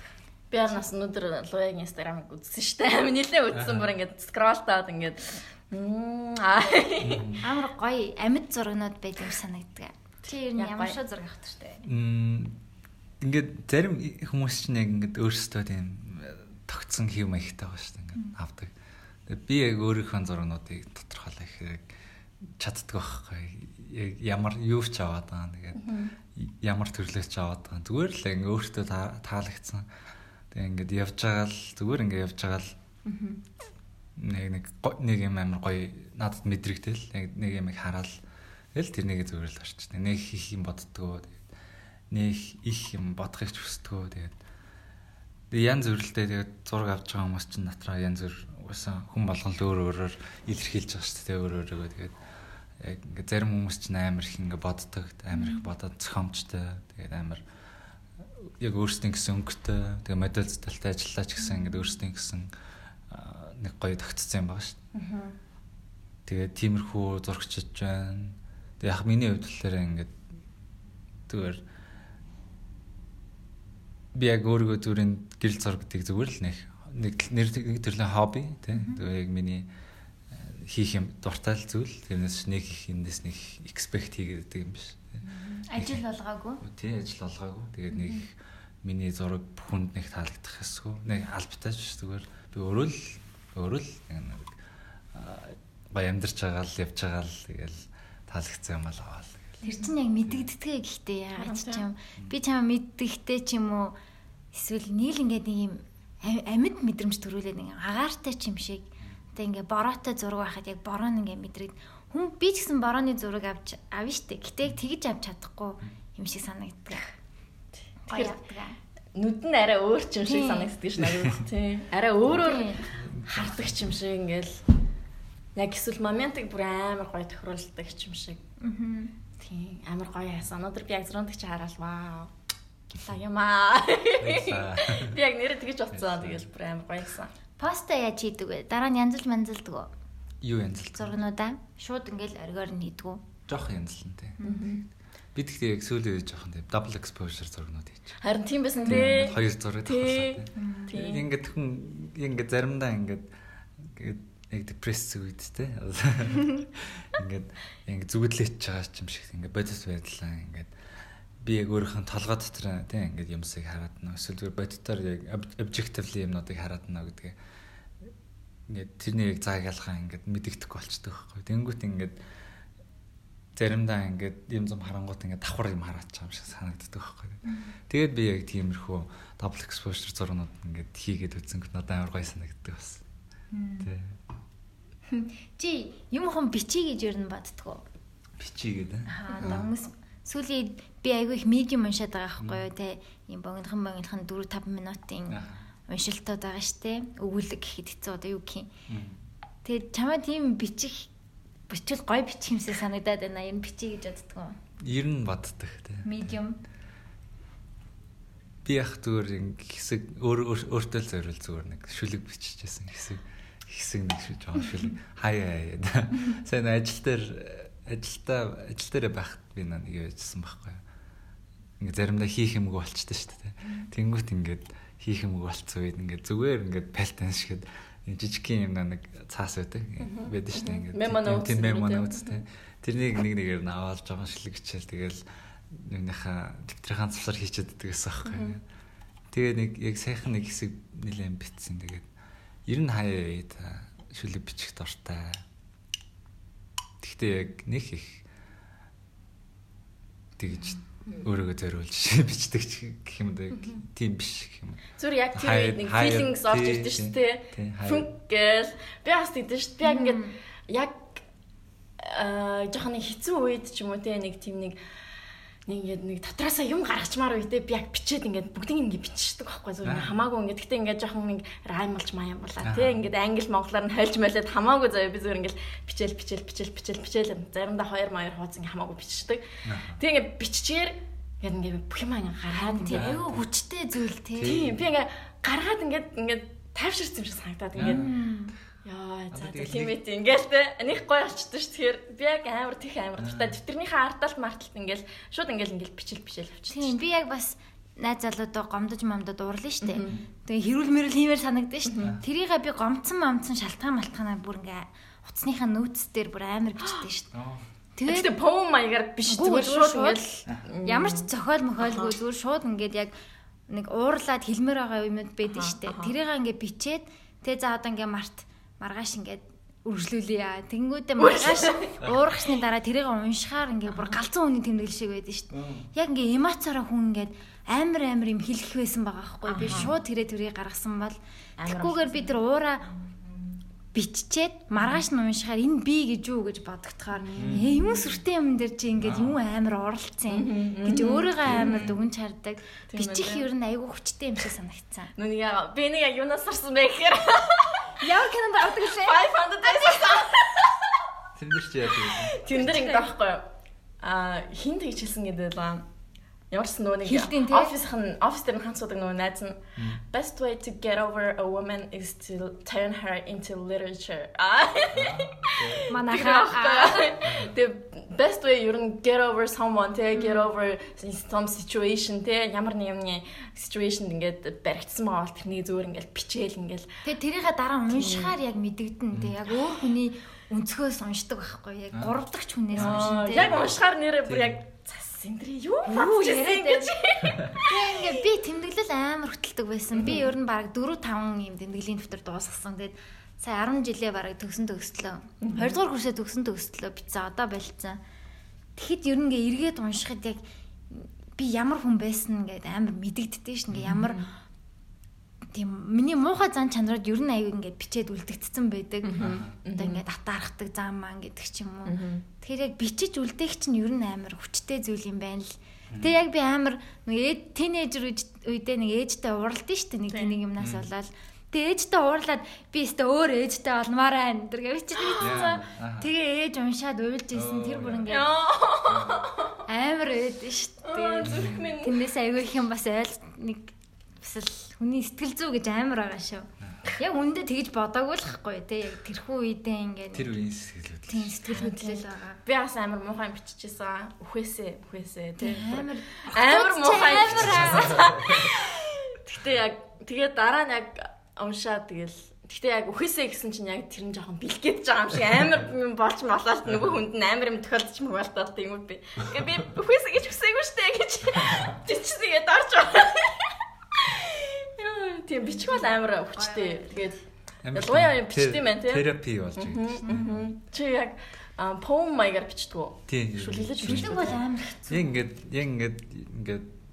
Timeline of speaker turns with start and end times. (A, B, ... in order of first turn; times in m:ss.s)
0:00.5-0:07.3 A
0:03.5-0:03.9 B
0:07.0-0:07.4 B
0:07.4-0:11.8 C
0:10.6-0:11.0 A
0:11.8-0:12.6 B
0:13.2-0:18.7 B
0:19.3-0:21.9 B
0:22.6-0:29.9 B
0:25.8-0:26.1 A
0:30.5-0:32.8 B
0:33.0-0:33.4 A
0:34.2-0:38.2 B
0:38.7-0:41.4 B
0:42.1-0:44.4 B
0:45.5-0:52.2 B
0:52.8-0:57.4 B
0:58.6-1:02.5 B
1:03.1-1:04.8 B
1:04.9-1:05.3 A
1:06.3-1:10.2 B
1:11.3-1:11.6 B
1:14.1-1:19.7 B
1:20.3-1:25.2 B
1:25.3-1:25.6 A
1:25.6-1:26.6 C
1:25.7-1:26.0 B
1:26.6-1:28.3 B
1:28.8-1:34.6 B
1:35.1-1:39.6 B
1:39.6-1:44.0 C
1:39.6-1:39.9 A
1:41.4-1:41.8 A
1:44.5-1:57.1 C
1:58.1-1:58.8 C
1:58.1-1:58.4 A
1:59.2-2:04.6 A
2:00.2-2:00.7 C
2:01.0-2:01.4 B
2:02.3-2:02.8 C
2:02.9-2:03.7 B
2:05.6-2:08.4 A
2:08.6-2:09.1 C
2:09.4-2:12.3 A
2:12.9-2:17.3 A
2:14.2-2:15.2 B
2:15.9-2:16.5 B
2:17.6-2:19.9 C
2:20.4-2:21.2 B
2:21.0-2:23.2 C
2:23.5-2:24.4 B
2:24.4-2:24.8 A
2:25.4-2:28.2 B
2:28.2-2:31.3 A
2:28.9-2:33.3 B
2:33.8-2:40.7 B
2:41.4-2:47.4 B
2:48.7-2:52.2 B
2:53.6-3:03.0 B
3:03.5-3:03.9 C
3:03.8-3:04.2 B
3:05.1-3:07.8 C
3:08.4-3:09.7 B
3:09.1-3:18.7 C
3:12.4-3:12.7 B
3:15.3-3:15.6 B
3:18.9-3:19.2 B
3:19.6-3:21.1 C
3:21.7-3:24.6 C
3:24.8-3:26.2 B
3:26.0-3:26.6 C
3:28.6-3:40.8 B
3:41.8-3:58.6 B
3:50.0-3:52.4 A
3:58.3-3:58.6 A
3:59.3-4:02.1 B
4:02.7-4:05.4 B
4:07.0-4:08.2 B
4:10.4-4:18.1 B
4:15.0-4:21.2 A
4:19.8-4:20.4 C
4:22.0-4:24.8 A
4:25.7-4:39.5 A
4:29.8-4:30.1 B
4:32.6-4:33.0 B
4:39.6-4:40.0 B
4:40.0-4:43.2 A
4:42.5-4:44.6 C
4:42.9-4:43.4 B
4:44.4-4:44.8 B
4:44.4-4:48.1 A
4:47.8-4:48.1 B
4:47.8-4:48.6 C
4:48.8-4:57.0 A
4:49.3-4:50.0 B
4:53.2-4:53.6 B
4:56.7-5:07.3 C
4:59.8-5:00.2 A
5:01.9-5:02.1 A
5:06.8-5:07.0 A
5:07.3-5:07.7 B
5:08.0-5:08.3 C
5:08.1-5:12.1 A
5:09.3-5:13.1 C
5:13.7-5:32.9 C
5:15.6-5:16.1 A
5:21.2-5:21.9 A
5:25.5-5:25.9 B
5:29.5-5:29.9 A
5:29.6-5:29.9 B
5:31.6-5:32.3 A
5:33.9-5:45.1 C
5:37.2-5:38.2 A
5:37.4-5:37.7 B
5:39.0-5:39.4 B
5:40.3-5:41.9 A
5:41.4-5:42.0 B
5:42.9-5:43.5 A
5:45.2-5:48.0 A
5:48.0-5:50.3 C
5:48.6-5:51.0 A
5:51.4-5:52.4 B
5:52.0-5:53.4 A
5:52.5-5:53.1 C
5:54.0-5:55.8 A
5:56.5-6:16.9 A
5:57.0-5:57.8 C
5:59.8-6:00.0 B
6:04.9-6:05.9 B
6:05.9-6:07.2 C
6:07.2-6:07.6 B
6:10.2-6:10.5 C
6:17.0-6:23.6 C
6:17.9-6:18.4 A
6:19.1-6:19.4 B
6:19.5-6:19.8 A
6:22.7-6:23.7 B
6:22.8-6:28.2 A
6:24.2-6:24.6 B
6:25.9-6:38.0 C
6:27.3-6:27.6 B
6:29.9-6:30.3 A
6:35.4-6:35.8 A
6:38.8-6:44.2 C
6:43.9-6:44.3 A
6:45.5-7:08.4 C
6:49.0-6:50.0 A
6:49.2-6:49.5 B
6:51.9-6:52.2 A
6:55.9-6:56.2 B
7:00.1-7:00.4 A
7:00.6-7:00.9 B
7:05.0-7:05.3 A
7:05.2-7:06.1 B
7:07.3-7:08.2 B
7:08.1-7:09.6 A
7:08.8-7:09.4 B
7:09.7-7:20.3 C
7:10.9-7:12.1 A
7:11.2-7:11.7 B
7:20.1-7:21.3 B
7:21.1-7:22.4 C
7:21.4-7:47.2 A
7:25.4-7:28.1 C
7:27.2-7:28.6 B
7:36.7-7:37.0 B
7:41.4-7:41.7 B
7:45.6-7:47.2 C
7:47.6-7:50.5 B
7:47.7-7:54.4 A
7:50.1-7:50.4 C
7:53.1-7:56.8 B
7:53.8-7:55.1 C